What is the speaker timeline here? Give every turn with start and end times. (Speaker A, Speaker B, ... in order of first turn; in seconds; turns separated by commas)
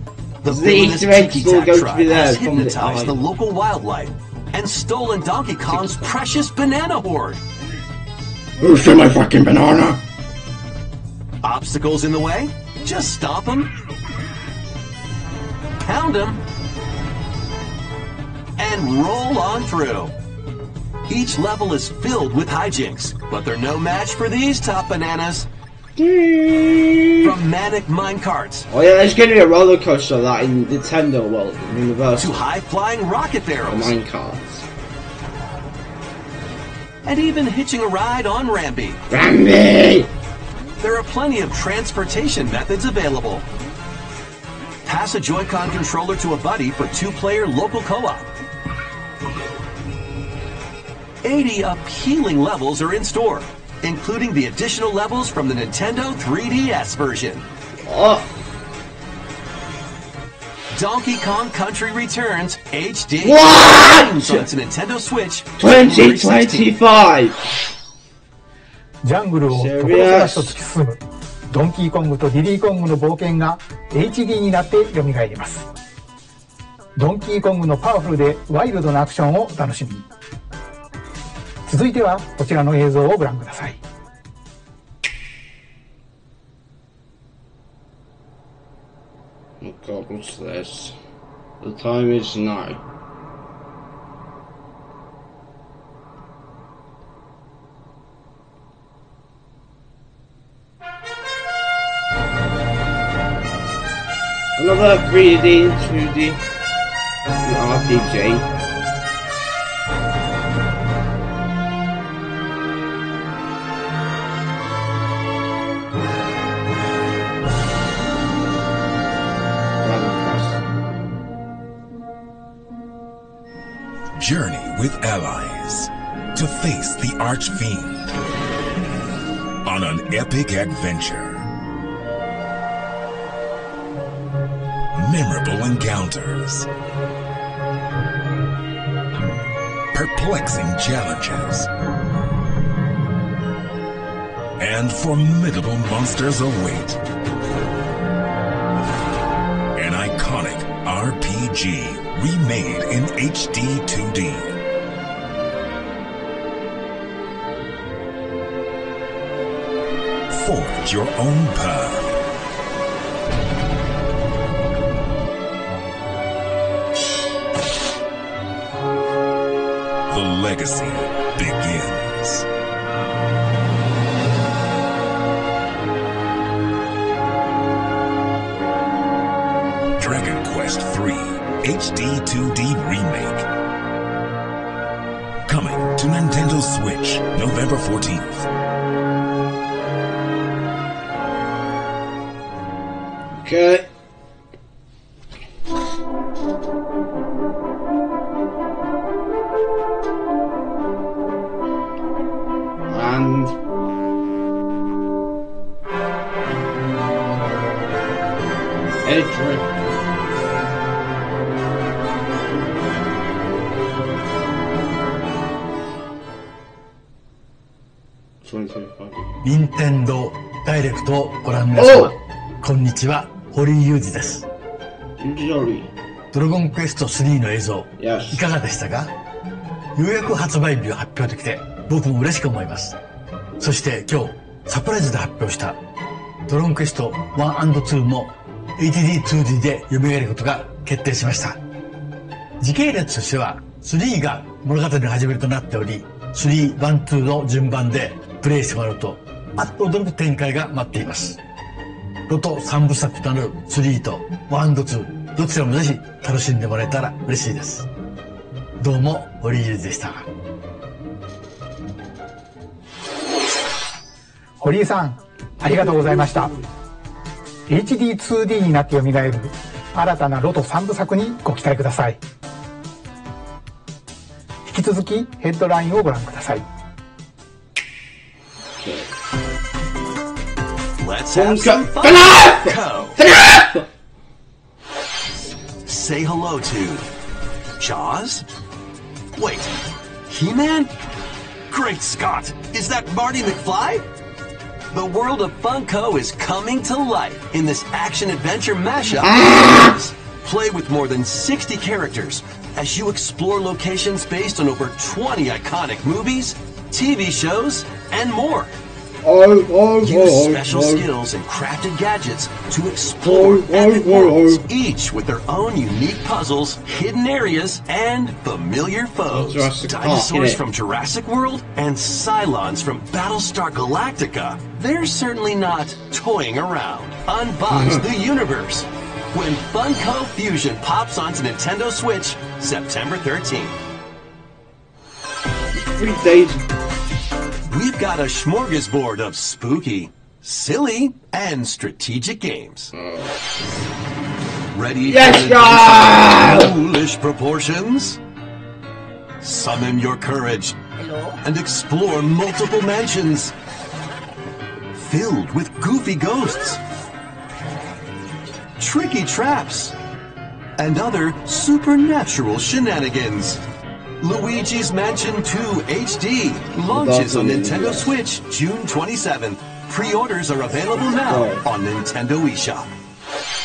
Speaker A: 0.4-7.4, Speaker B: 0.5-3.2, Speaker B: 5.7-6.1, Speaker B: 8.6-10.0, Speaker A: 11.4-13.7, Speaker A: 15.8-16.4, Speaker A: 18.6-20.1, Speaker A: 21.1-25.5, Speaker B: 25.9-27.3, Speaker A: 27.2-28.7, Speaker B: 28.7-32.4, Speaker A: 32.2-33.9, Speaker B: 33.6-34.6, Speaker A: 37.0-39.0, Speaker B: 39.1-40.1, Speaker A: 40.8-43.5, Speaker A: 44.8-48.3, Speaker A: 51.2-57.4, Speaker B: 57.8-58.3, Speaker A: 60.7-66.7, Speaker B: 63.2-64.5, Speaker B: 65.6-67.4, Speaker C: 69.0-75.7, Speaker B: 69.5-70.5, Speaker C: 77.0-80.0, Speaker C: 81.7-83.8, Speaker B: 89.6-91.0, Speaker B: 91.6-92.8, Speaker B: 104.6-106.4, Speaker B: 107.4-108.5, Speaker B: 119.8-120.6, Speaker D: 124.2-128.1, Speaker D: 129.6-131.5, Speaker D: 134.9-136.7, Speaker D: 139.9-141.7, Speaker D: 144.6-147.0, Speaker D: 149.8-154.6, Speaker D: 160.3-162.1, Speaker D: 170.1-172.4, Speaker D: 180.0-183.5, Speaker D: 185.4-188.5, Speaker B: 193.4-193.9, Speaker B: 202.9-203.5, Speaker B: 209.0-209.7, Speaker B: 218.4-219.3, Speaker E: 219.4-224.5, Speaker B: 221.8-222.1, Speaker B: 225.2-225.9, Speaker E: 226.3-229.1, Speaker B: 228.0-228.4, Speaker E: 229.9-233.0, Speaker E: 233.6-235.8, Speaker E: 236.5-241.6, Speaker E: 242.6-251.4, Speaker E: 252.3-257.9, Speaker E: 258.8-260.3, Speaker C: 264.6-266.5, Speaker B: 265.6-266.6, Speaker C: 267.7-272.2, Speaker C: 274.6-276.6, Speaker B: 278.8-279.1, Speaker A: 281.0-283.2, Speaker B: 281.3-283.9, Speaker A: 285.9-287.1, Speaker A: 287.8-288.4, Speaker A: 289.4-289.7, Speaker A: 290.3-290.9, Speaker A: 291.7-294.0, Speaker A: 294.9-308.7, Speaker B: 299.2-299.9, Speaker B: 309.2-311.1, Speaker A: 310.0-333.8, Speaker B: 313.2-314.6, Speaker B: 319.3-320.6, Speaker B: 327.7-328.0, Speaker B: 335.7-336.6, Speaker A: 337.7-342.9, Speaker B: 342.9-343.4, Speaker A: 344.7-348.2, Speaker B: 345.1-346.7, Speaker A: 349.4-350.8, Speaker A: 351.4-353.5, Speaker A: 354.9-356.8, Speaker A: 358.8-359.9, Speaker A: 360.8-363.6, Speaker A: 364.2-372.9, Speaker B: 366.9-368.1, Speaker B: 371.1-371.6